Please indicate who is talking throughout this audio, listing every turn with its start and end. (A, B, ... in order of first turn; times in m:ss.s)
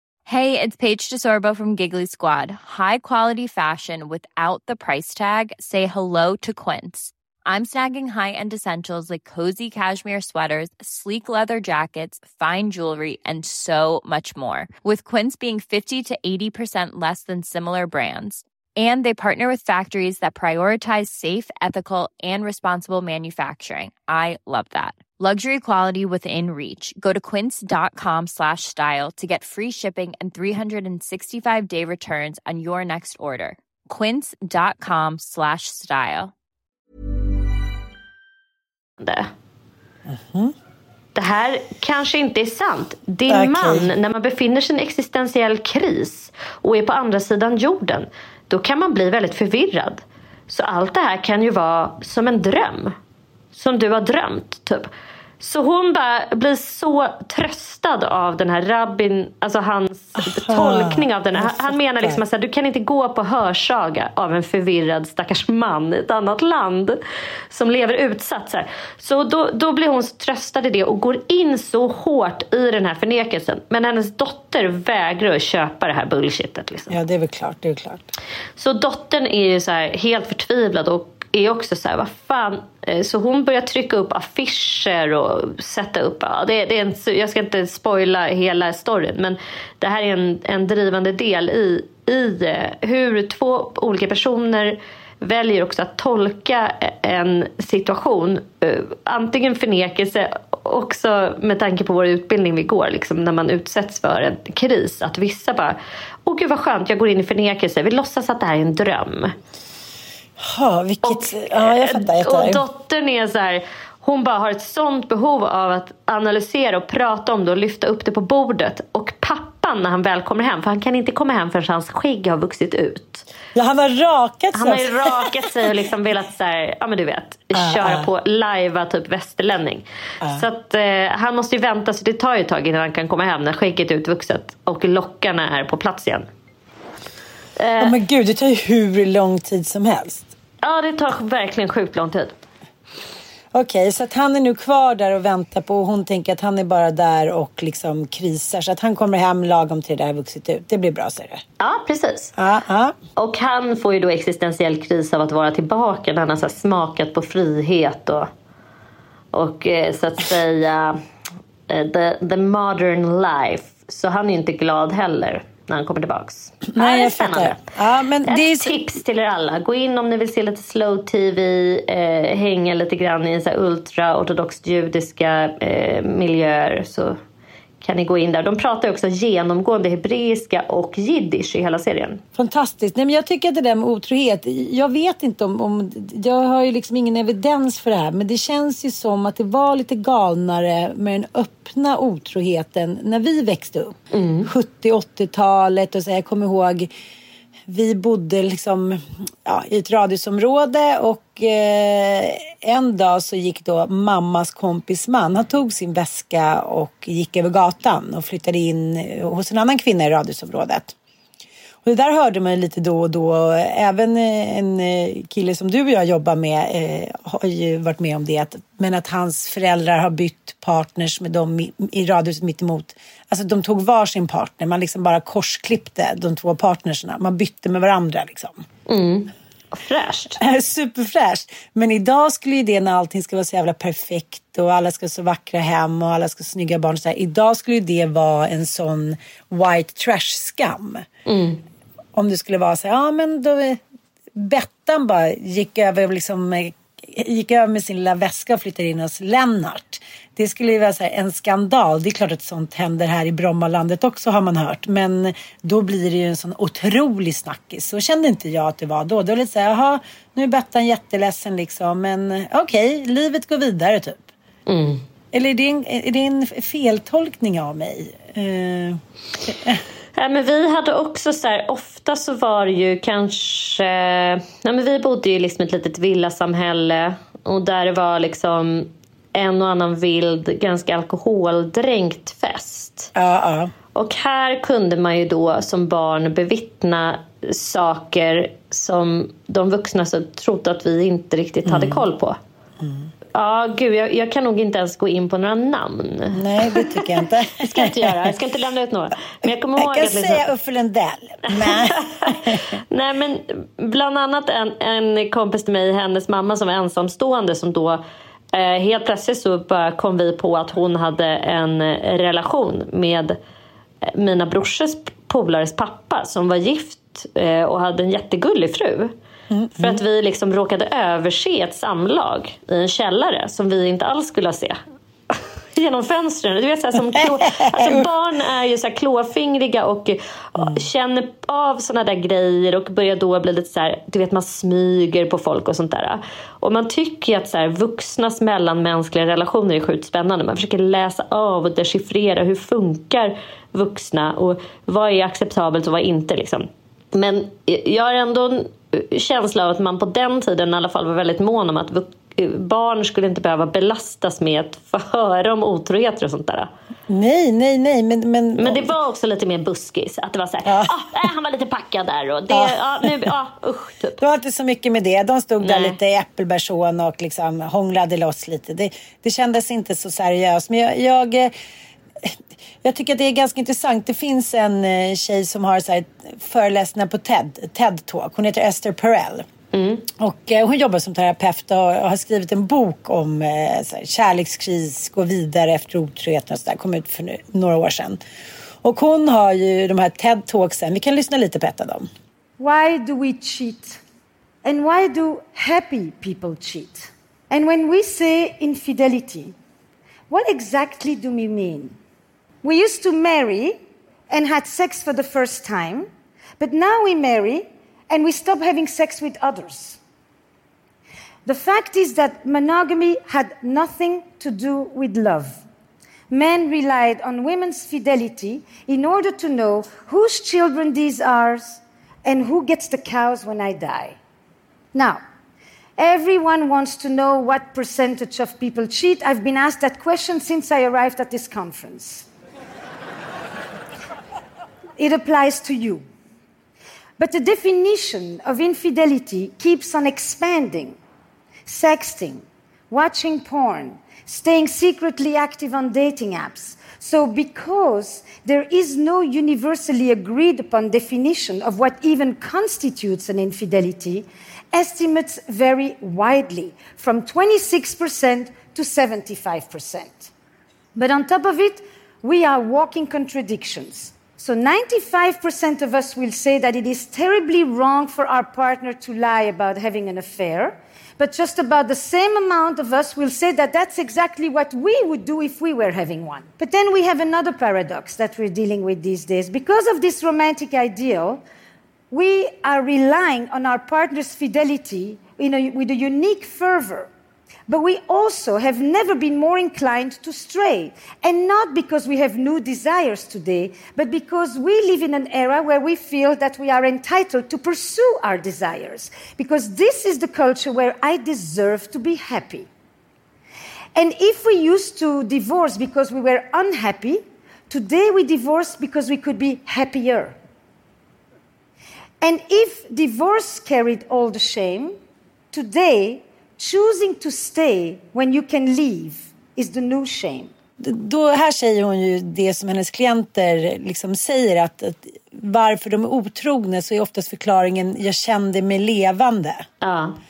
0:00.3-0:36.3 A
0:39.0-0:39.3 B
0:40.1-0:40.5 C
0:41.2-0:53.0 B
0:43.3-0:43.9 C
0:53.5-0:54.9 B
0:55.4-1:07.0 B
1:00.2-1:02.2 C
1:07.5-1:17.0 B
1:16.9-1:18.1 C
1:18.6-1:49.3 B
1:50.4-1:52.6 C
1:51.0-2:03.3 B
2:03.6-2:05.5 C
2:04.5-2:16.3 B
2:07.6-2:08.1 C
2:10.2-2:10.5 C
2:17.6-2:18.0 B
2:17.8-2:20.3 C
2:20.6-2:22.4 B
2:23.5-2:31.4 C
2:31.6-2:32.3 B
2:32.4-2:32.9 C
2:33.2-2:38.3 B
2:39.3-2:41.0 B
2:41.7-2:47.6 B
2:46.7-2:48.9 C
2:48.2-2:57.2 B
2:57.8-3:02.2 B
3:02.4-3:16.9 C
3:14.1-3:14.5 B
3:17.7-3:30.9 C
3:31.8-3:48.6 C
3:48.9-3:50.4 B
3:50.4-4:01.1 C
4:01.3-4:01.6 B
4:02.2-4:03.8 C
4:04.4-4:24.3 C
4:24.7-4:25.0 B
4:25.3-4:29.8 C
4:30.2-4:43.1 B
4:43.2-4:43.7 C
4:44.0-4:52.4 B
4:51.6-4:52.0 C
4:52.8-4:53.1 C
4:53.3-5:00.4 B
4:56.3-4:58.4 C
4:59.4-5:02.7 C
5:01.5-5:08.0 B
5:08.5-5:13.4 B
5:14.1-5:19.1 B
5:19.5-5:20.0 C
5:19.8-5:24.8 B
5:25.3-5:56.7 B
5:27.2-5:28.1 C
5:30.6-5:30.8 C
5:57.1-5:58.9 C
5:58.6-6:04.2 B
6:00.7-6:01.0 C
6:02.5-6:03.3 C
6:04.2-6:11.5 C
6:05.6-6:06.0 B
6:12.2-6:19.5 C
6:19.7-6:20.0 B
6:20.2-6:28.2 C
6:28.8-6:32.1 C
6:32.6-6:34.0 D
6:34.6-6:39.5 D
6:40.3-6:42.0 D
6:42.6-6:43.8 D
6:44.3-6:50.0 D
6:51.4-6:55.6 D
6:56.3-7:04.2 D
7:04.9-7:05.2 D
7:06.0-7:12.3 D
7:15.0-7:16.0 D
7:17.2-7:21.0 D
7:21.7-7:40.3 D
7:41.0-8:01.4 D
8:02.1-8:07.1 D
8:07.7-8:22.7 D
8:24.0-8:30.4 D
8:32.2-8:35.0 D
8:35.5-8:40.5 D
8:40.8-8:49.7 C
8:49.8-8:50.2 B